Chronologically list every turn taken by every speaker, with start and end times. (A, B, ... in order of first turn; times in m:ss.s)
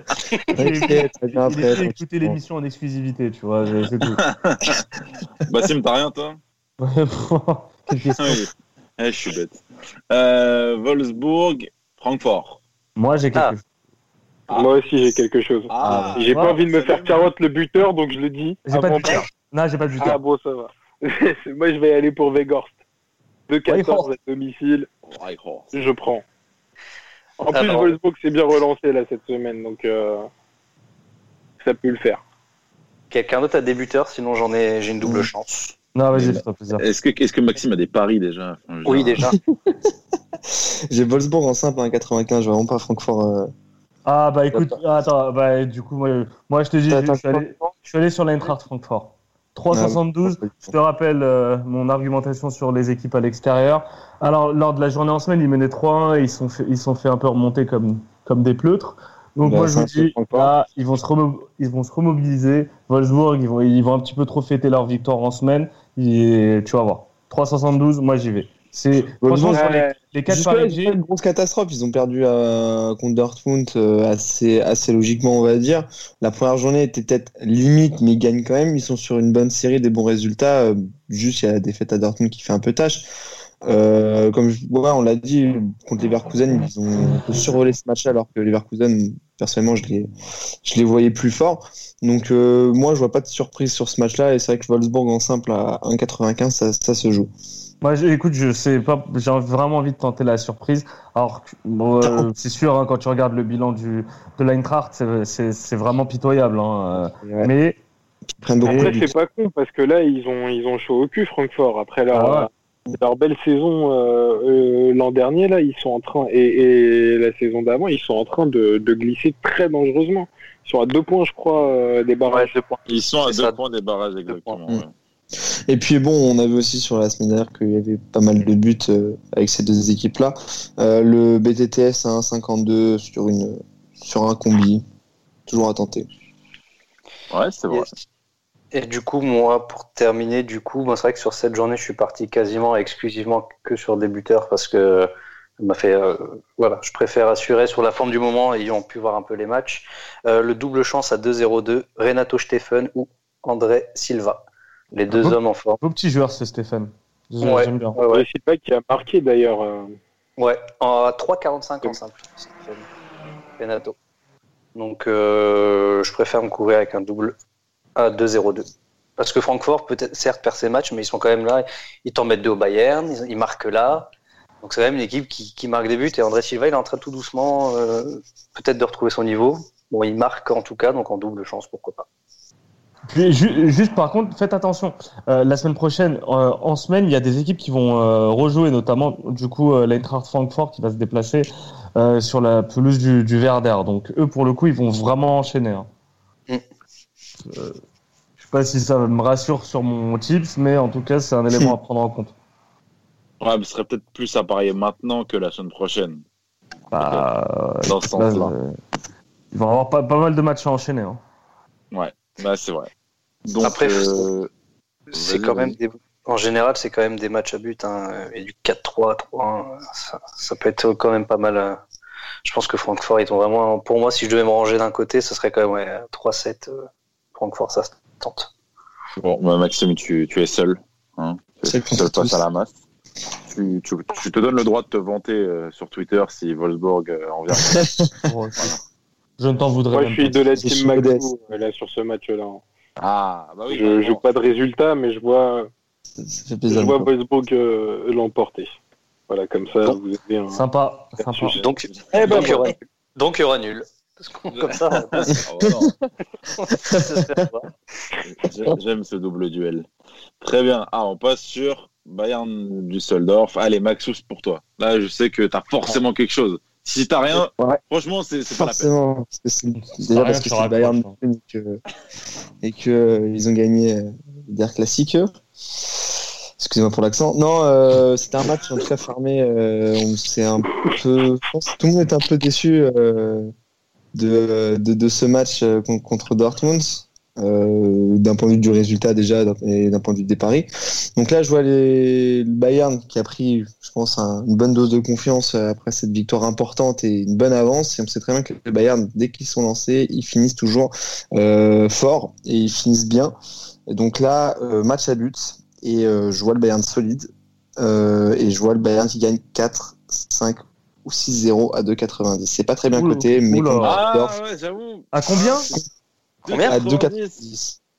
0:00.5-0:02.4 A
0:00.6-0:04.2 B
0:04.2-0:04.9 C
0:05.4-0:06.4 C
0:06.8-0:08.4 B
0:08.2-0:09.6 C
0:10.1-0:12.6 C
0:13.0-0:13.6 B
0:14.5-0:14.7 C
0:14.5-0:19.3 D
0:15.7-0:17.3 C
0:15.8-0:16.2 A
0:18.7-0:20.2 B
0:20.0-0:22.8 D
0:23.5-0:24.9 D
0:23.7-0:24.1 B
0:25.1-0:25.7 C
0:25.7-0:26.2 D
0:27.4-0:30.3 D
0:27.5-0:28.0 E
0:31.6-0:32.2 D
0:33.1-0:35.8 E
0:35.0-0:35.3 A
0:36.0-0:36.8 B
0:36.1-0:39.3 C
0:38.9-0:39.4 E
0:40.5-0:43.5 A
0:44.1-1:10.9 B
0:46.9-0:47.7 A
0:49.7-0:50.7 A
0:59.4-1:00.5 A
1:09.2-1:23.1 A
1:23.6-1:30.1 A
1:30.6-1:37.3 A
1:37.8-1:47.8 B
1:42.0-1:42.3 A
1:47.2-1:47.5 A
1:48.4-1:49.1 A
1:48.6-1:49.0 B
1:48.7-2:02.5 D
1:52.1-1:52.5 B
2:02.3-2:03.6 E
2:02.9-2:04.9 C
2:04.3-2:04.6 E
2:05.7-2:14.8 A
2:15.5-2:16.1 A
2:17.3-2:17.9 C
2:18.7-2:35.8 E
2:35.1-2:38.0 B
2:37.4-2:38.3 E
2:38.1-2:40.0 D
2:40.4-2:42.9 E
2:43.6-2:44.0 E
2:44.8-2:47.4 E
2:48.0-2:48.7 E
2:49.2-2:54.1 E
2:54.6-3:02.1 E
3:03.1-3:15.9 B
3:17.5-3:17.8 B
3:18.4-3:22.3 B
3:23.4-3:26.2 C
3:26.9-3:28.8 B
3:27.0-3:27.2 C
3:27.9-3:28.5 C
3:29.5-3:31.2 B
3:31.9-3:32.9 C
3:33.4-3:34.5 C
3:33.6-3:34.3 E
3:35.1-3:41.8 E
3:35.1-3:35.8 C
3:42.4-3:48.5 E
3:49.2-3:52.7 C
3:51.6-3:52.4 A
3:53.5-3:58.0 C
3:57.5-3:58.1 A
3:58.3-3:58.7 B
3:59.4-4:00.7 B
3:59.9-4:02.6 D
4:00.6-4:01.2 A
4:03.0-4:04.2 C
4:03.7-4:05.7 D
4:06.2-4:07.1 A
4:06.7-4:08.7 D
4:09.3-4:10.6 D
4:10.5-4:11.6 B
4:11.3-4:11.6 D
4:11.6-4:15.4 E
4:11.9-4:12.6 C
4:12.1-4:12.8 D
4:14.6-4:15.9 C
4:15.4-4:15.9 A
4:16.6-4:17.7 E
4:16.7-4:17.2 A
4:18.2-4:19.9 C
4:20.4-4:28.9 C
4:28.6-4:31.8 A
4:29.9-4:31.2 B
4:32.6-4:35.3 A
4:36.6-4:43.5 A
4:44.2-5:03.3 A
5:03.9-5:14.3 A
5:12.9-5:14.0 B
5:13.8-5:15.8 C
5:15.1-5:15.7 B
5:16.4-5:17.4 C
5:16.5-5:16.8 E
5:16.7-5:17.8 A